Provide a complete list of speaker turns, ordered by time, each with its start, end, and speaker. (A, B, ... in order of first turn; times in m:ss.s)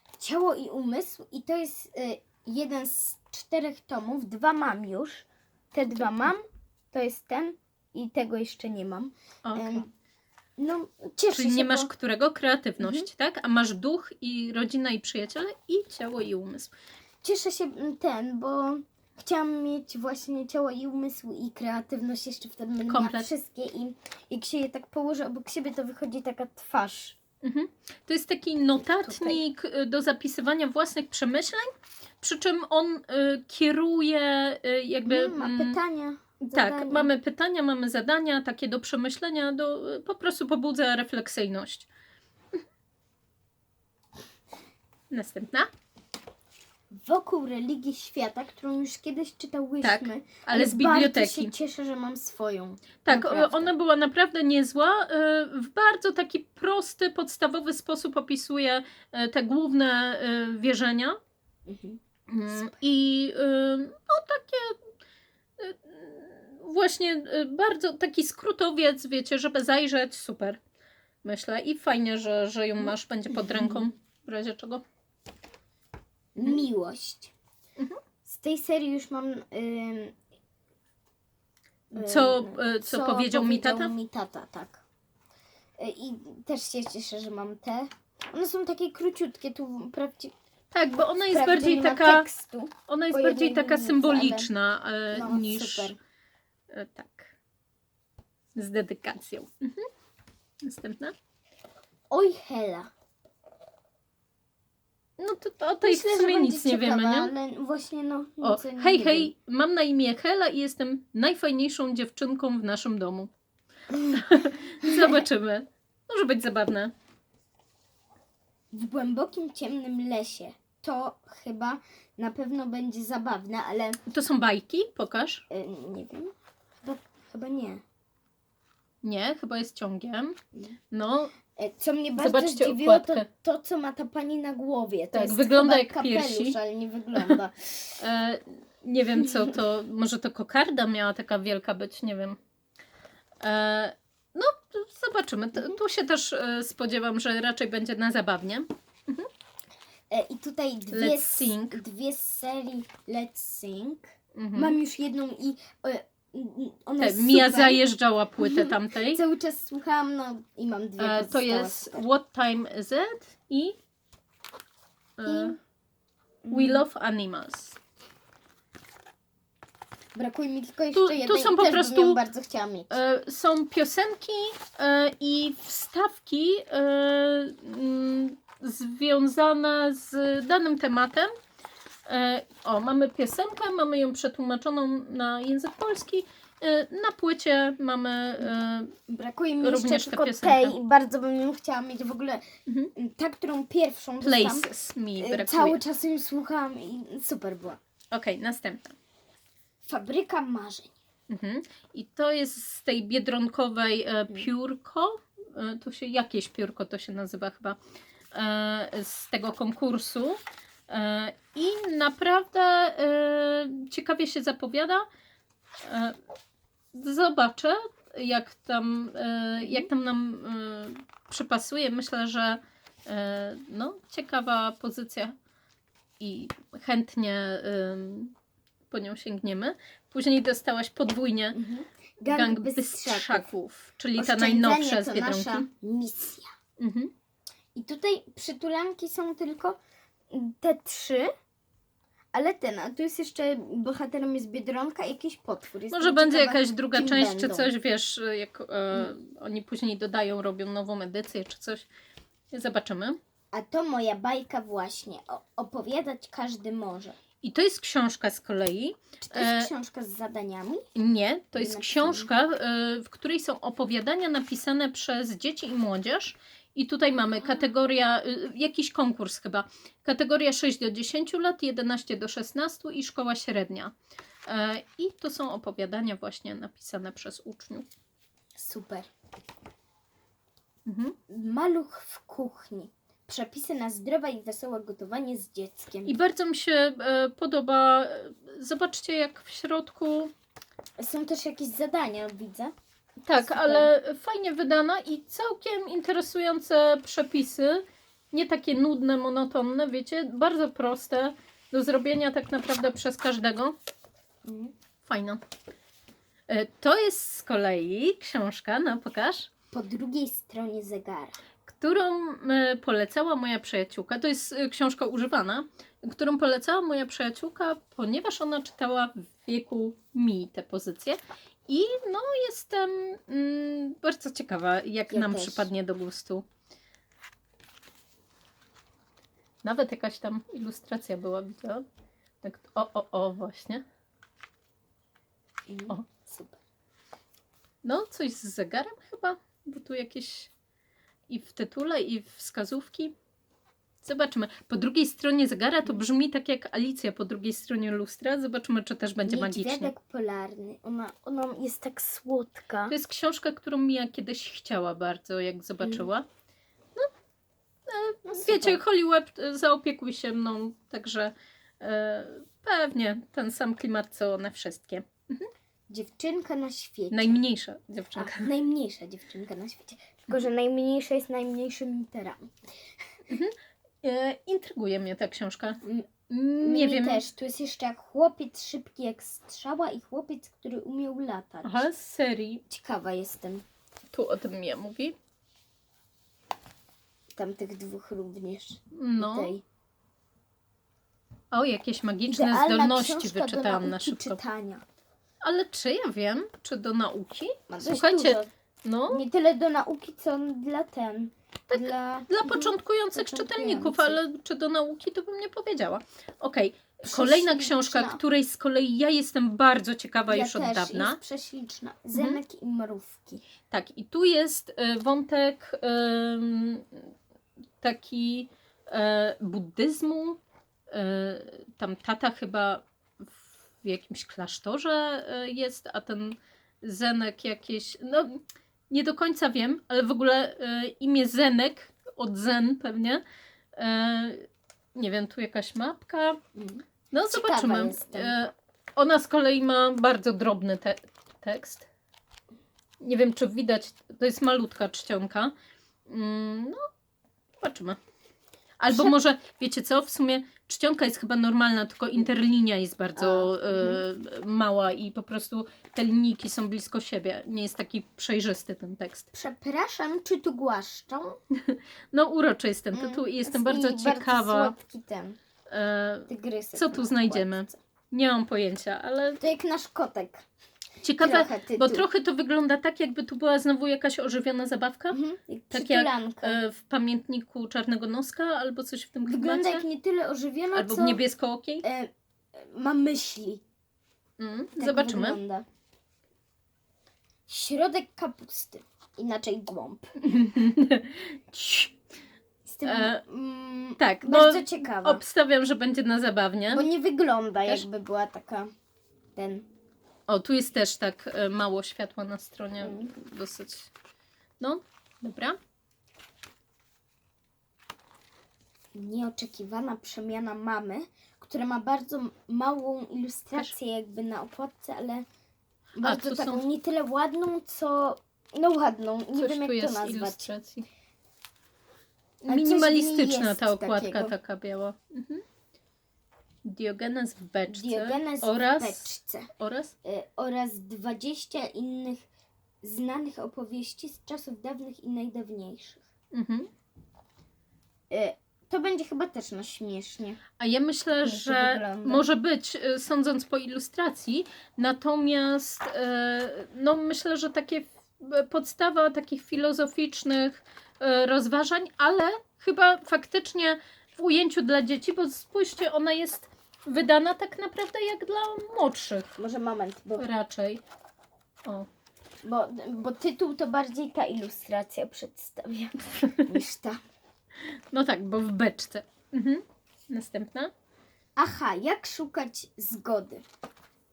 0:00.2-0:09.9 A
0:06.0-0:06.3 B
0:09.4-0:09.8 B
0:10.6-0:11.9 A
0:11.3-0:16.7 B
0:12.8-0:13.1 A
0:17.2-0:27.2 A
0:22.9-0:23.3 B
0:27.4-0:31.7 B
0:29.0-0:29.4 A
0:32.2-0:35.8 B
0:35.0-0:37.1 A
0:36.5-0:41.9 B
0:45.1-0:45.7 B
0:46.9-0:53.7 A
0:49.8-0:51.5 B
0:53.0-1:01.2 B
1:01.6-1:02.8 A
1:02.3-1:04.8 B
1:05.6-1:10.6 B
1:11.2-1:14.8 B
1:13.3-1:13.8 A
1:16.3-1:17.3 A
1:18.2-1:20.2 A
1:21.9-1:23.9 B
1:21.9-1:24.8 A
1:25.8-1:30.3 A
1:30.7-1:32.3 B
1:31.3-1:34.5 A
1:32.9-1:35.9 B
1:35.1-1:36.0 A
1:36.7-1:37.3 B
1:38.5-1:39.9 B
1:40.6-1:41.1 B
1:42.1-1:42.9 A
1:45.2-1:47.3 B
1:45.8-1:49.3 A
1:48.4-1:53.3 B
1:54.1-1:56.9 B
1:54.8-1:55.1 A
1:58.7-2:04.0 A
2:04.1-2:05.4 B
2:05.5-2:07.8 A
2:09.0-2:10.4 B
2:10.9-2:11.3 B
2:11.5-2:17.9 A
2:12.2-2:13.3 B
2:15.1-2:16.6 B
2:18.0-2:22.4 B
2:23.4-2:29.3 B
2:30.1-2:37.8 A
2:30.9-2:31.8 B
2:34.3-2:34.8 B
2:37.0-2:39.2 B
2:38.4-2:42.1 A
2:41.0-2:43.8 B
2:45.2-2:45.6 B
2:45.2-2:45.6 A
2:46.4-2:46.8 A
2:46.5-2:47.8 B
2:50.1-2:53.0 A
2:50.9-2:52.2 B
2:52.9-3:01.3 B
3:02.0-3:09.0 B
3:09.1-3:12.4 A
3:09.6-3:10.8 B
3:12.7-3:12.9 B
3:12.9-3:17.8 A
3:14.2-3:15.8 B
3:18.1-3:18.9 B
3:19.8-3:20.9 A
3:21.3-3:27.8 B
3:28.3-3:35.0 B
3:35.8-3:36.2 B
3:36.9-3:45.3 B
3:39.6-3:39.9 A
3:46.2-3:48.3 B
3:48.9-3:51.6 B
3:51.5-3:53.5 A
3:52.2-3:55.7 B
3:54.2-3:56.5 A
3:56.8-3:57.1 B
3:57.7-3:59.8 A
4:00.3-4:01.3 A
4:02.3-4:07.7 A
4:05.9-4:11.9 B
4:12.5-4:13.2 B
4:13.5-4:17.2 A
4:17.4-4:19.7 B
4:19.2-4:20.8 A
4:20.9-4:33.9 B
4:21.5-4:22.3 A
4:27.4-4:27.6 A
4:34.4-4:37.8 B
4:38.6-4:39.1 A
4:40.8-4:41.2 B
4:41.3-4:46.1 A
4:46.0-4:50.3 B
4:51.0-4:52.7 A
4:53.2-5:03.7 B
4:53.4-4:53.9 A
5:04.4-5:04.7 A
5:05.0-5:05.4 B
5:06.5-5:09.5 B
5:09.7-5:11.4 A
5:11.6-5:26.4 B
5:25.1-5:25.7 A
5:29.6-5:31.8 B
5:32.4-5:33.8 B
5:35.7-5:36.6 A
5:37.8-5:40.5 B
5:41.3-5:43.1 B
5:44.0-5:49.9 B
5:49.2-5:52.9 A
5:52.9-5:56.3 B
5:57.9-6:05.5 B
5:58.2-5:58.8 A
6:05.9-6:07.4 A
6:07.1-6:08.5 B
6:08.2-6:12.6 A
6:13.3-6:17.2 B
6:15.8-6:21.8 A
6:21.6-6:22.6 B
6:22.7-6:23.6 A
6:24.1-6:25.1 B
6:27.3-6:29.6 A
6:28.9-6:29.5 B
6:31.5-6:34.4 B
6:32.3-6:34.8 A
6:35.4-6:39.2 B
6:37.7-6:38.5 A
6:39.1-6:44.2 A
6:41.7-6:51.2 B
6:47.0-6:48.2 A
6:50.3-6:53.4 A
6:52.1-6:52.4 B
6:53.7-6:57.1 B
6:57.8-7:00.4 B
7:00.9-7:03.3 B
7:03.8-7:13.2 B
7:13.7-7:16.4 B
7:16.5-7:18.4 A
7:17.1-7:21.9 B
7:23.0-7:25.5 B
7:26.1-7:26.9 B
7:27.6-7:28.0 B
7:28.8-7:39.3 B
7:33.2-7:34.0 A
7:39.3-7:41.4 A
7:41.5-7:44.7 B
7:42.9-7:45.4 A
7:45.7-7:49.4 B
7:46.3-7:47.8 A
7:49.4-7:50.4 A
7:51.0-7:55.2 B
7:51.2-7:52.1 A
7:55.1-7:56.6 A
7:55.7-7:59.8 B
7:59.3-8:01.2 A
8:00.7-8:01.8 B
8:01.8-8:03.6 A
8:04.4-8:05.4 B
8:04.8-8:05.6 A
8:07.5-8:10.1 A
8:10.2-8:12.0 B
8:12.6-8:15.2 A
8:12.8-8:13.2 B
8:14.0-8:16.9 B
8:16.7-8:18.7 A
8:19.3-8:19.7 A
8:20.3-8:23.9 B
8:22.8-8:23.1 A
8:24.6-8:25.6 B
8:28.9-8:35.2 A
8:36.0-8:40.5 A
8:36.0-8:36.6 B
8:39.3-8:40.9 B
8:42.4-8:45.4 B
8:42.5-8:44.3 A
8:46.6-8:49.9 B
8:47.7-8:49.5 A
8:50.0-8:52.3 A
8:52.8-8:56.0 A
8:56.3-8:56.7 B
8:58.1-9:00.4 A
9:00.6-9:19.3 B
9:01.2-9:02.2 A
9:19.4-9:20.2 A
9:20.2-9:20.8 B
9:22.4-9:27.0 A
9:26.2-9:26.5 B
9:27.9-9:30.7 B
9:31.4-9:33.4 A